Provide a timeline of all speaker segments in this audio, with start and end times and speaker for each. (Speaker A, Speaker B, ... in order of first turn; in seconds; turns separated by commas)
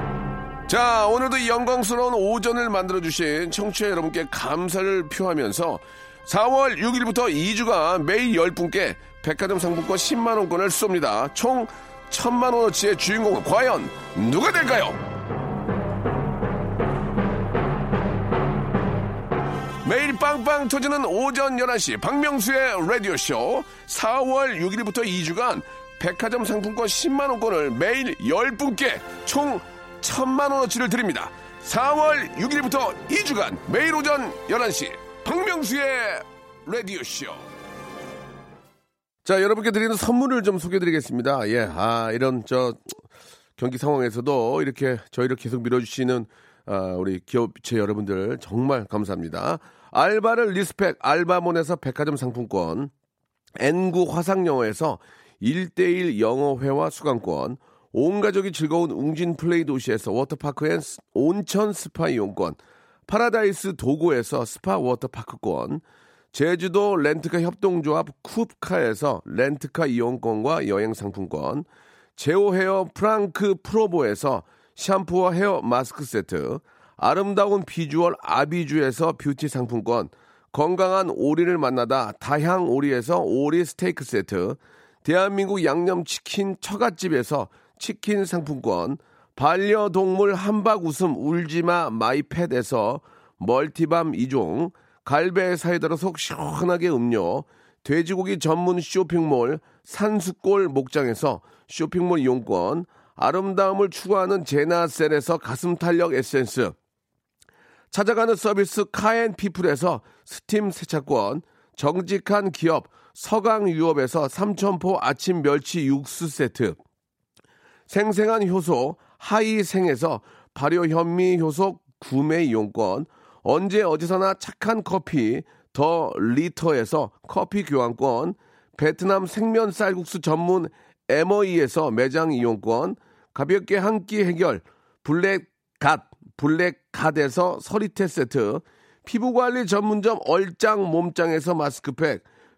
Speaker A: 0.7-15.0, Speaker A: 19.9-37.5, Speaker A: 39.2-42.9, Speaker A: 43.6-52.9, Speaker A: 53.6-106.8, Speaker A: 107.9-116.8, Speaker A: 117.9-142.3